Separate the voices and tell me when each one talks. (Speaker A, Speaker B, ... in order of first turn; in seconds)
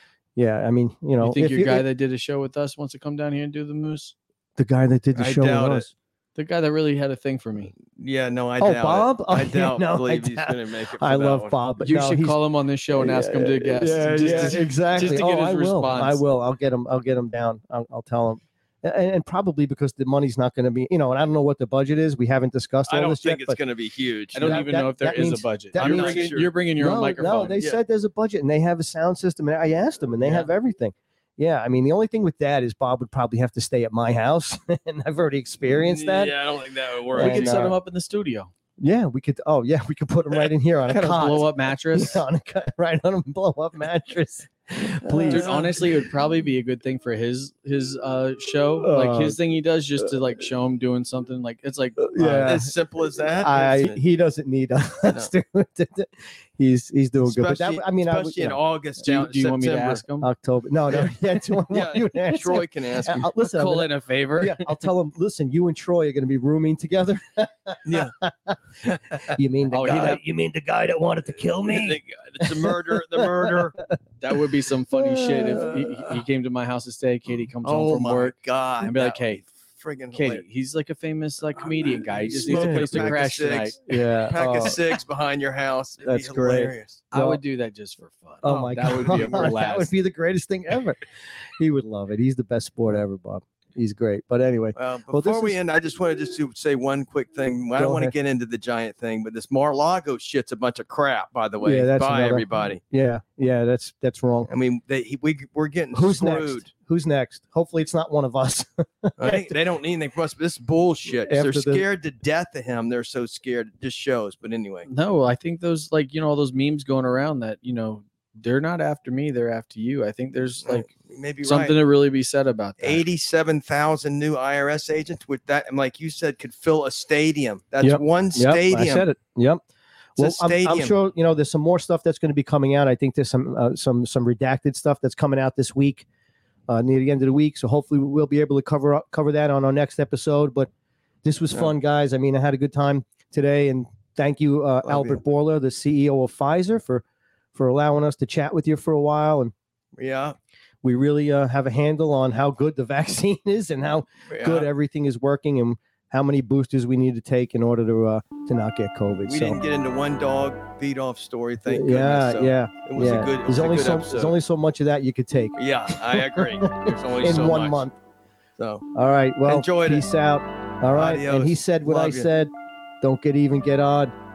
Speaker A: 0.4-1.9, 4.6-5.9, 8.6-12.4, 12.9-23.6, 24.4-36.3, 37.2-37.8, 38.8-45.5, 48.8-49.4, 52.1-52.7, 53.4-58.6, 60.2-68.6, 69.2-73.9, 74.9-75.8, 82.5-83.2, 83.9-84.8, 86.0-87.4, 88.4-91.0, 91.6-95.6, 97.8-98.1, 101.6-104.5, 105.9-109.6, 111.3-111.8, 127.8-129.6, 130.2-136.1, 136.7-140.7, 141.2-149.5, 150.8-159.6, 161.7-167.9, 168.9-174.1
Speaker B: 1.2-4.2, 6.4-7.7, 11.8-16.2, 24.3-27.6, 37.1-38.5, 40.9-42.2, 45.3-52.5, 59.0-60.3, 63.5-64.7, 69.7-70.2, 74.2-79.5, 80.1-83.8, 87.1-89.9, 114.9-120.9, 121.4-123.0
Speaker C: 5.2-5.9, 7.8-11.6, 13.9-15.2, 22.9-24.7, 25.8-26.5, 35.6-37.7, 45.1-45.9, 52.2-54.0, 55.1-55.3, 57.2-60.0, 60.9-63.3, 67.9-68.2, 68.8-70.1, 71.7-73.8, 75.5-76.2, 77.6-80.4, 81.6-87.0, 89.1-89.5, 94.8-102.8, 104.5-106.7, 109.2-114.9, 120.6-121.8, 122.8-129.1, 130.2-131.0, 144.9-145.2, 150.0-150.4, 154.3-154.7, 159.2-164.3, 165.6-167.8, 168.6-168.9, 169.4-170.1, 170.9-172.3